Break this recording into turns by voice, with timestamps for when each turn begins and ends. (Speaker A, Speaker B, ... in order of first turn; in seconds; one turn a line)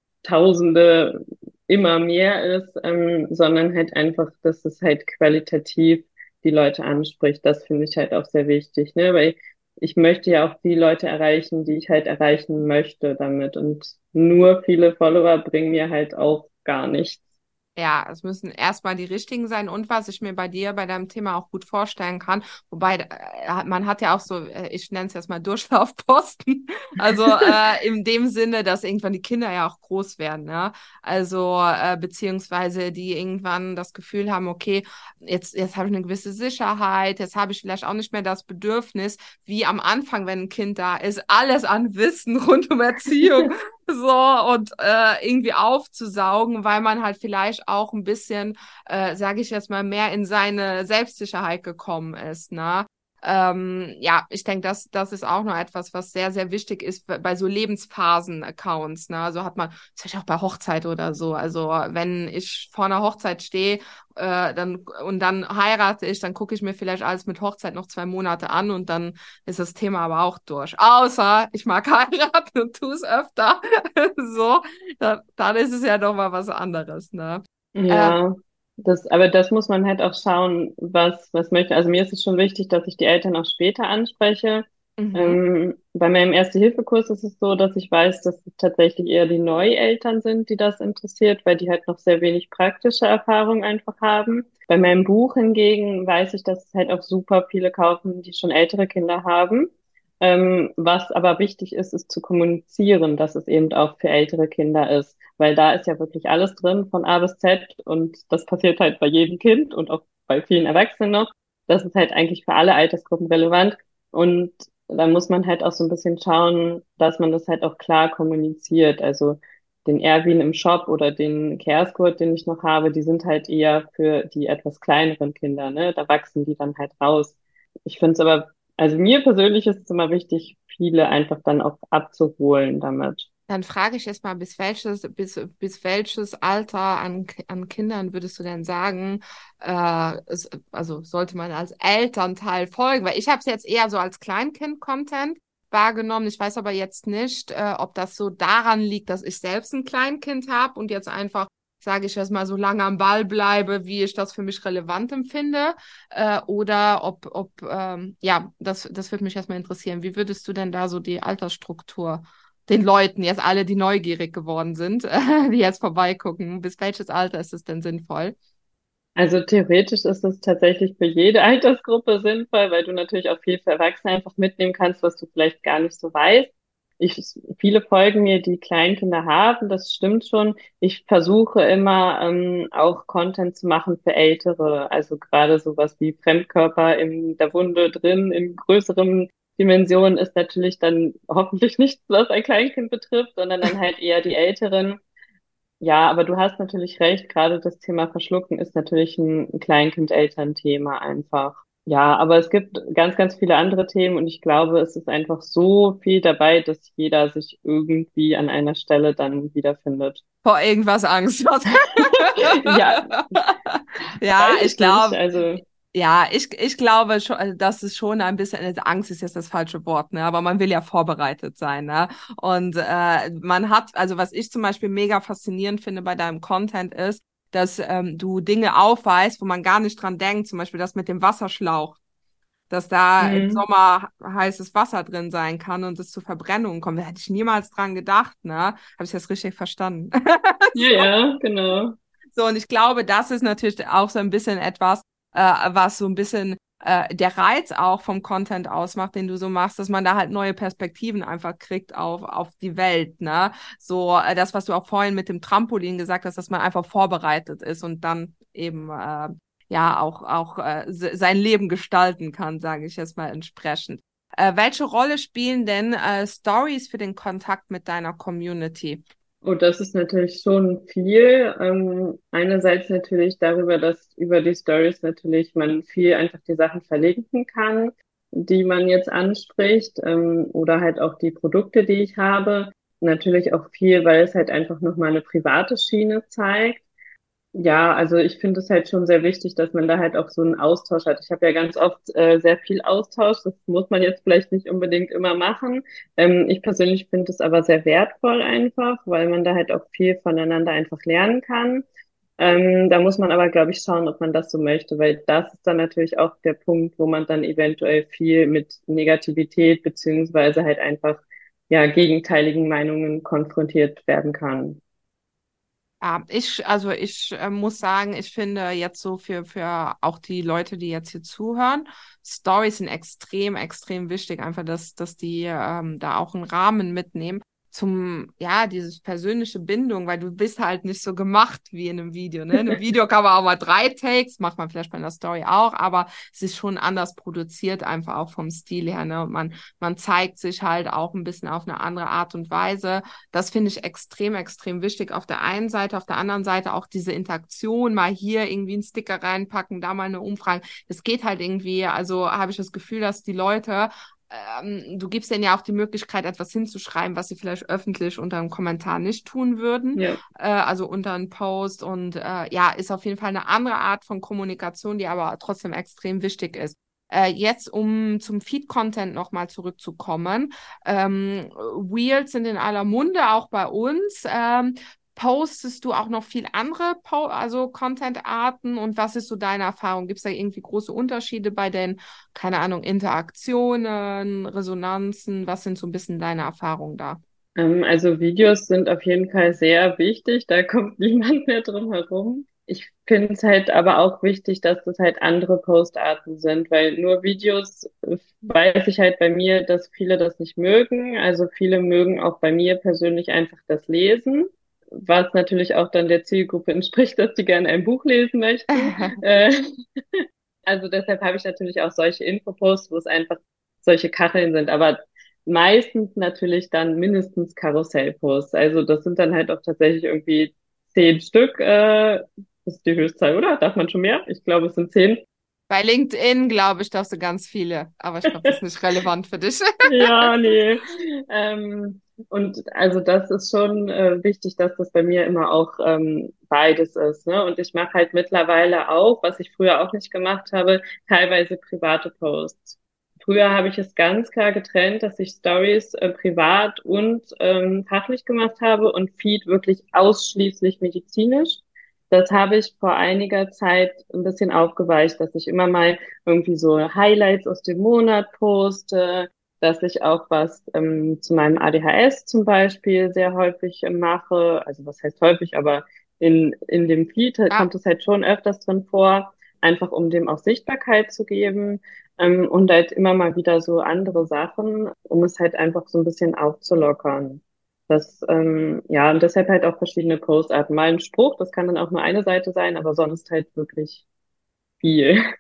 Speaker A: 0.2-17.2
Speaker B: 17.8-78.2
Speaker A: 77.8-99.7
Speaker B: 85.0-85.4
Speaker A: 100.2-133.3
Speaker B: 133.5-168.4
Speaker A: 169.2-195.0
Speaker A: 195.8-210.2
Speaker B: 210.4-215.2
Speaker A: 212.5-213.1
Speaker A: 214.4-215.6
Speaker B: 215.9-232.0
Speaker B: 232.7-241.1
Speaker A: 233.2-233.7
Speaker A: 240.8-242.0
Speaker B: 242.3-269.0
Speaker A: 269.4-286.8
Speaker A: 287.6-301.9
Speaker A: 302.4-314.8
Speaker B: 316.0-387.2
Speaker A: 387.6-409.5
Speaker B: 408.8-409.2
Speaker A: 410.7-425.2
Speaker B: 425.7-430.6
Speaker A: 428.3-428.5
Speaker A: 429.9-484.0
Speaker A: 484.8-485.2